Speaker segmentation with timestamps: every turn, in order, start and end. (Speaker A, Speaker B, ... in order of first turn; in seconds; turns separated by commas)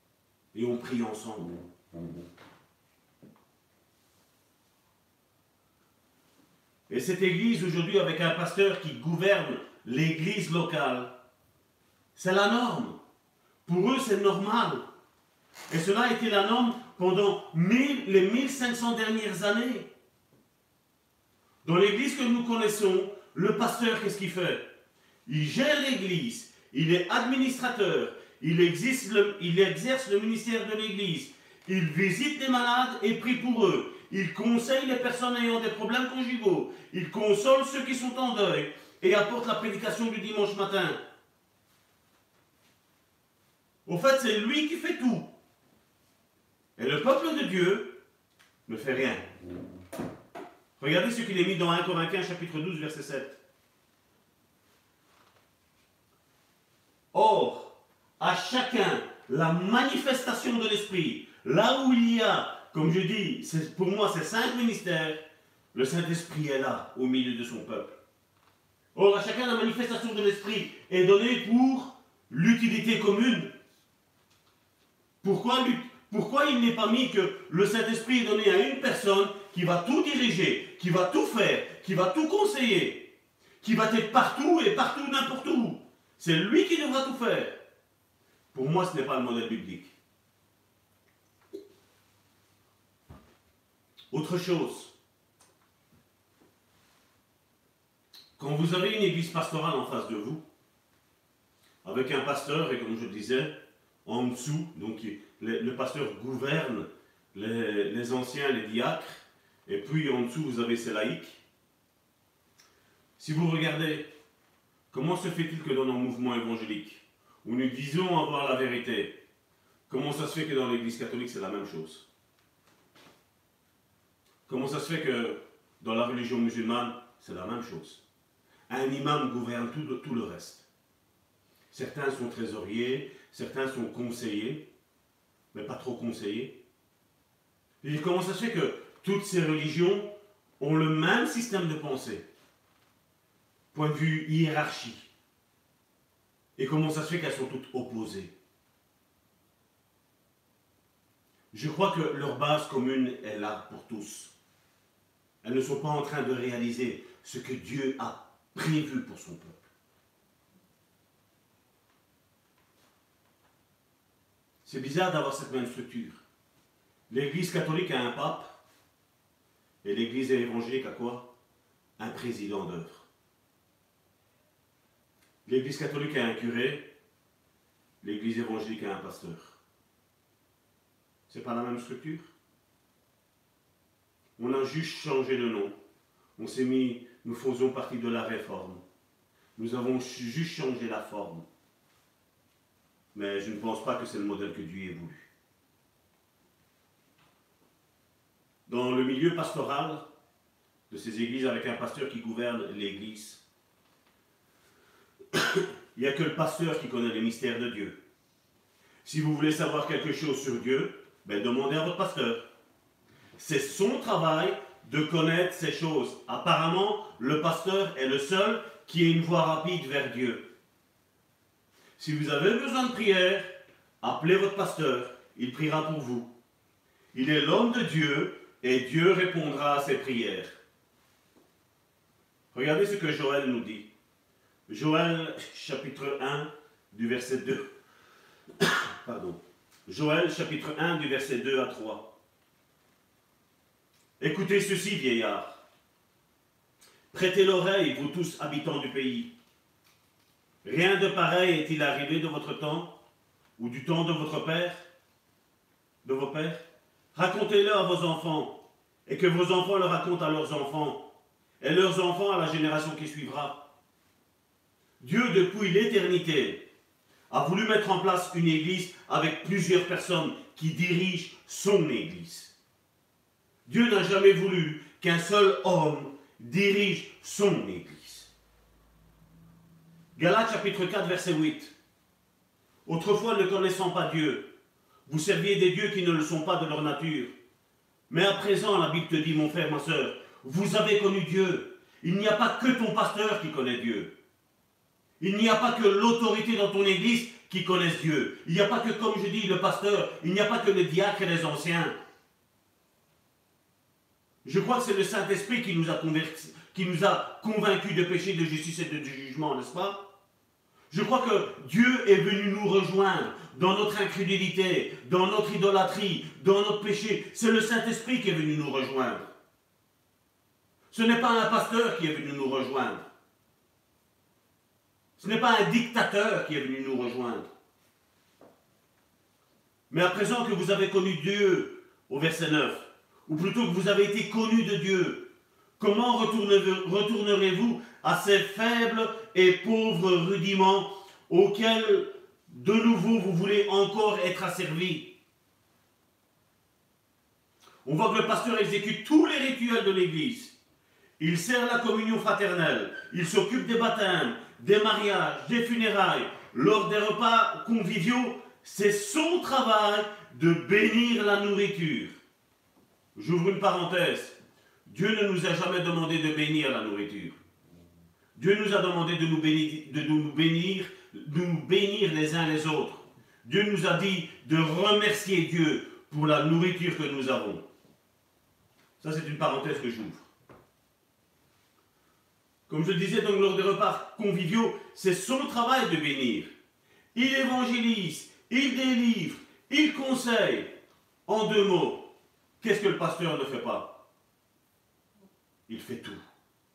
Speaker A: 0.5-1.7, Speaker A: 6.9-11.1, Speaker A: 12.2-13.0, Speaker A: 13.7-14.8, Speaker A: 15.7-19.9, Speaker A: 21.6-24.7, Speaker A: 25.3-41.0, Speaker A: 43.9-45.3, Speaker A: 46.8-48.0, Speaker A: 48.7-49.3, Speaker A: 50.8-53.4, Speaker A: 57.1-65.2, Speaker A: 65.7-67.9, Speaker A: 68.9-73.5, Speaker A: 75.2-87.6, Speaker A: 88.5-89.9, Speaker A: 94.1-94.9, Speaker A: 98.4-100.4, Speaker A: 101.8-111.4, Speaker A: 113.2-114.1, Speaker A: 114.9-119.2, Speaker A: 119.9-122.0, Speaker A: 124.5-128.0, Speaker A: 128.7-130.7, Speaker A: 131.7-134.7, Speaker A: 135.5-136.6, Speaker A: 137.8-142.2, Speaker A: 143.7-145.1, Speaker A: 146.6-148.3, Speaker A: 151.5-154.3, Speaker A: 155.4-159.6, Speaker A: 164.7-166.2, Speaker A: 167.1-168.6, Speaker A: 169.8-171.3, Speaker A: 172.0-173.1, Speaker A: 175.4-176.9, Speaker A: 178.0-179.6, Speaker A: 181.3-182.3, Speaker A: 184.4-185.7, Speaker A: 186.4-188.8, Speaker A: 189.6-191.4, Speaker A: 193.1-195.3, Speaker A: 198.7-200.0, Speaker A: 200.9-203.4, Speaker A: 205.3-208.0, Speaker A: 209.0-212.4, Speaker A: 213.4-220.4, Speaker A: 222.0-223.5, Speaker A: 224.0-226.3, Speaker A: 227.1-230.6, Speaker A: 232.5-233.9, Speaker A: 234.7-237.7, Speaker A: 238.6-242.1, Speaker A: 244.2-245.6, Speaker A: 247.1-249.3, Speaker A: 250.6-252.9, Speaker A: 253.6-254.8, Speaker A: 256.0-256.6, Speaker A: 257.1-261.1, Speaker A: 261.6-263.6, Speaker A: 265.0-266.7, Speaker A: 267.3-272.5, Speaker A: 273.7-278.3, Speaker A: 280.2-281.7, Speaker A: 282.9-284.5, Speaker A: 285.1-287.3, Speaker A: 288.1-294.1, Speaker A: 295.2-301.9, Speaker A: 304.4-310.1, Speaker A: 310.9-319.3, Speaker A: 320.9-323.0, Speaker A: 325.2-327.5, Speaker A: 329.9-345.1, Speaker A: 347.8-350.6, Speaker A: 351.2-362.2, Speaker A: 363.1-364.4, Speaker A: 364.9-367.4, Speaker A: 368.4-377.6, Speaker A: 379.0-380.2, Speaker A: 382.7-386.5, Speaker A: 387.1-390.8, Speaker A: 391.3-392.1, Speaker A: 392.6-394.0, Speaker A: 395.7-396.2